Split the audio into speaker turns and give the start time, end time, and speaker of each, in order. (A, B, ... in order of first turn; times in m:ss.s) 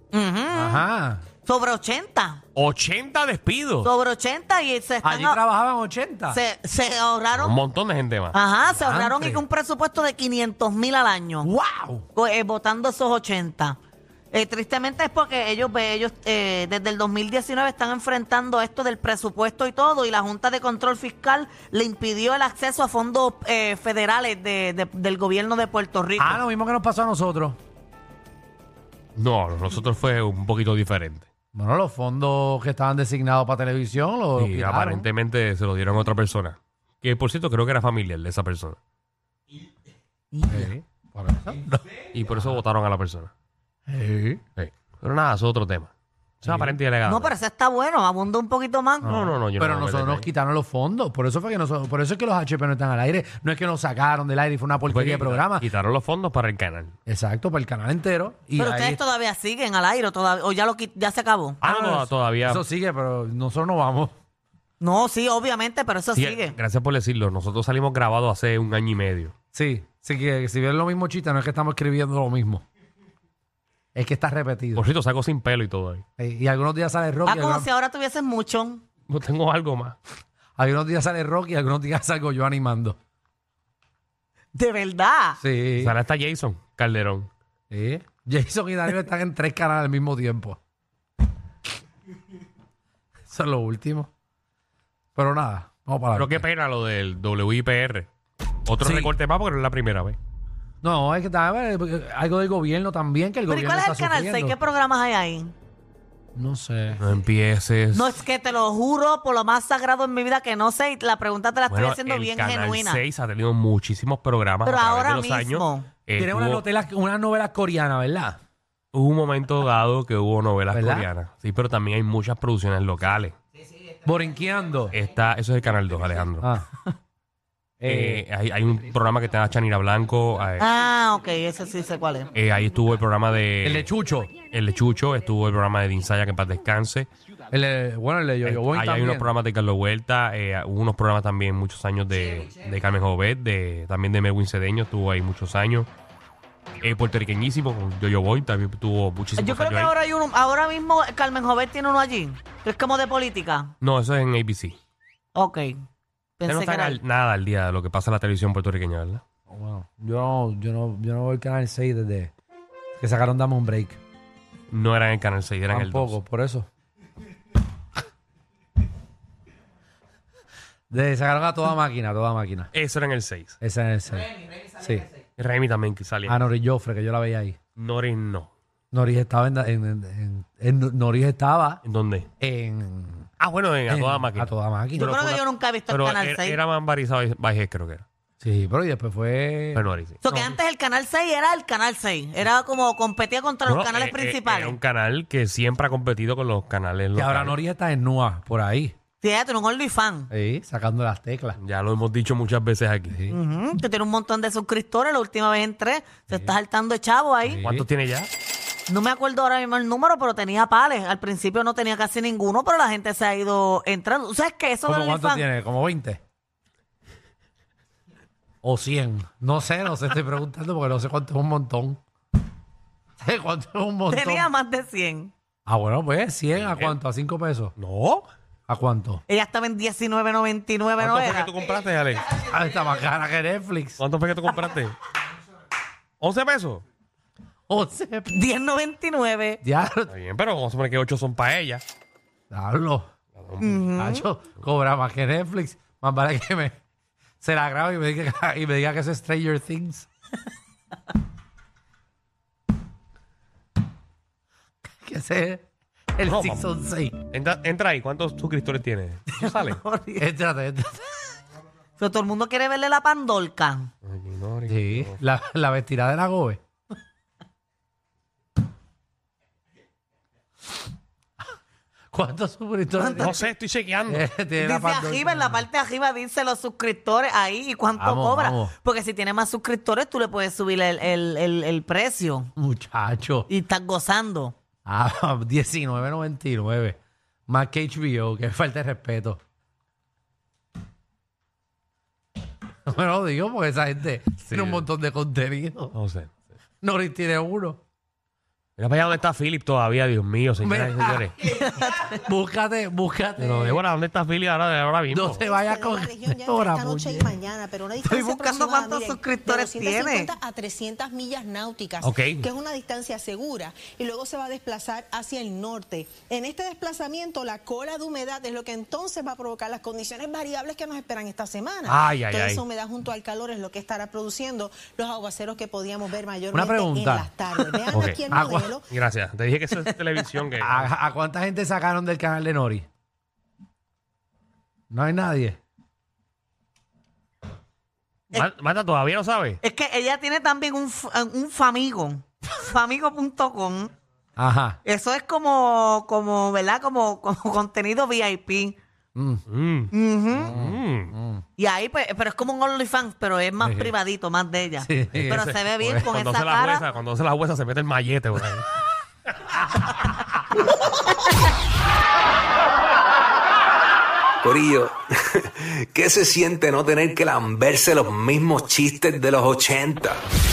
0:00.1-0:00.9 A
0:00.5-0:01.2 B
0:01.4-0:02.4 A
0:02.5-0:03.9 C
0:03.8-0:05.4 A
0:05.0-0:06.4 B
0:06.3-0:07.6 A
0:07.4-0:08.4 C
0:08.3-0:11.5 A
0:08.7-0:09.4 B
0:11.4-0:12.0 B
0:12.1-0:13.8 A
0:14.3-0:26.4 A
0:26.2-0:27.6 B
0:29.2-0:31.3 C
0:31.5-0:35.0 B
0:34.4-0:38.8 C
0:40.3-0:40.7 A
0:40.5-0:41.8 B
0:42.1-0:43.3 C
0:43.9-0:44.4 B
0:44.6-0:47.3 C
0:46.4-0:46.8 B
0:47.0-0:49.1 A
0:49.0-0:55.7 B
0:49.0-0:50.3 C
0:54.9-0:56.9 C
0:57.1-0:59.0 B
0:58.6-1:01.6 A
1:01.6-1:02.6 C
1:01.6-1:04.1 B
1:04.8-1:06.5 A
1:06.1-1:09.3 C
1:09.5-1:12.6 B
1:13.9-1:14.9 B
1:14.7-1:16.0 C
1:16.2-1:17.7 B
1:17.2-1:18.8 A
1:19.1-1:20.0 C
1:20.6-1:23.0 B
1:24.5-1:25.4 A
1:25.4-1:26.0 B
1:25.8-1:27.3 C
1:27.7-1:30.6 B
1:33.3-1:34.1 B
1:35.2-1:36.4 B
1:36.1-1:38.1 C
1:38.6-1:40.2 C
1:38.8-1:39.1 B
1:40.8-1:44.6 B
1:43.5-1:45.5 A
1:46.3-1:47.0 B
1:47.0-1:48.2 C
1:47.9-1:53.0 A
1:51.7-1:56.6 C
1:54.6-1:55.9 A
1:56.2-1:58.4 B
1:58.9-2:03.3 C
2:00.7-2:01.1 B
2:04.0-2:04.9 B
2:04.9-2:06.5 C
2:06.4-2:06.6 B
2:07.8-2:08.2 B
2:07.8-2:10.7 C
2:10.6-2:12.3 A
2:12.3-2:13.9 C
2:13.6-2:14.3 B
2:14.5-2:17.1 C
2:17.5-2:19.3 B
2:18.4-2:25.9 C
2:26.8-2:29.9 C
2:29.4-2:33.7 A
2:33.8-2:34.8 C
2:35.3-2:35.8 A
2:36.4-2:37.0 A
2:36.5-2:39.2 C
2:39.5-2:42.3 B
2:43.0-2:44.0 B
2:44.7-2:46.2 C
2:45.7-2:46.7 B
2:50.9-2:52.7 B
2:52.7-2:53.6 C
2:53.6-2:55.1 B
2:55.4-2:56.4 C
2:56.2-2:57.6 B
2:57.8-2:58.5 C
2:58.9-3:01.8 B
3:01.8-3:02.3 C
3:02.4-3:03.3 B
3:03.4-3:04.5 C
3:03.9-3:05.4 B
3:05.0-3:06.6 A
3:05.1-3:05.4 C
3:05.9-3:08.0 C
3:08.4-3:10.6 B
3:09.7-3:10.2 C
3:10.2-3:14.8 A
3:13.7-3:17.6 C
3:17.1-3:18.9 B
3:19.2-3:20.3 A
3:20.3-3:21.6 B
3:21.6-3:23.2 C
3:23.1-3:23.4 B
3:23.3-3:27.6 A
3:27.5-3:27.9 B
3:27.5-3:28.3 C
3:28.9-3:35.4 A
3:34.9-3:36.2 B
3:38.6-3:42.0 B
3:43.2-3:44.5 B
3:44.1-3:45.3 A
3:45.6-3:47.7 B
3:46.5-3:47.0 C
3:47.8-3:48.3 C
3:48.7-3:49.2 B
3:49.3-3:51.5 A
3:51.0-3:52.4 C
3:52.4-3:54.0 B
3:54.0-3:55.0 C
3:56.2-3:56.8 C
3:57.7-3:58.4 B
3:58.3-3:59.6 A
3:59.6-4:00.1 B
4:00.1-4:01.8 C
4:02.5-4:03.1 B
4:03.3-4:03.8 C
4:03.6-4:04.2 A
4:03.9-4:06.8 B
4:07.4-4:10.1 B
4:14.9-4:17.2 B
4:16.2-4:16.7 C
4:17.3-4:19.8 C
4:19.3-4:20.3 A
4:20.2-4:21.3 B
4:22.0-4:23.9 A
4:24.0-4:25.2 C
4:24.7-4:26.6 B
4:32.1-4:33.4 B
4:32.9-4:33.4 A
4:33.2-4:34.3 C
4:34.1-4:35.6 B
4:34.6-4:42.5 A
4:38.0-4:38.7 B
4:42.6-4:43.5 B
4:43.5-4:44.5 A
4:44.8-4:47.0 B
4:47.5-4:49.4 B
4:52.8-4:55.9 B
4:54.4-4:54.8 C
4:55.9-4:56.3 C
4:56.8-4:57.8 B
4:58.8-5:01.3 C
5:00.6-5:03.8 B
5:01.6-5:02.1 A
5:03.4-5:05.4 C
5:05.1-5:07.4 B
5:05.4-5:28.8 D
5:08.0-5:10.3 A
5:12.0-5:12.5 C
5:21.8-5:22.6 C
5:26.5-5:28.8 B
5:27.9-5:28.3 C
5:28.9-5:30.9 C
5:30.6-5:32.9 B
5:34.9-5:35.6 B
5:38.3-5:39.6 C
5:39.6-5:43.9 A
5:44.4-5:44.8 B
5:44.8-5:48.8 A
5:49.1-5:49.4 B
5:49.5-5:51.1 C
5:49.9-5:50.5 A
5:50.3-5:51.4 B
5:51.6-5:56.8 A
5:53.6-5:53.9 B
5:54.8-5:56.1 B
5:55.1-5:58.7 C
5:59.5-6:00.1 C
6:04.4-6:10.2 E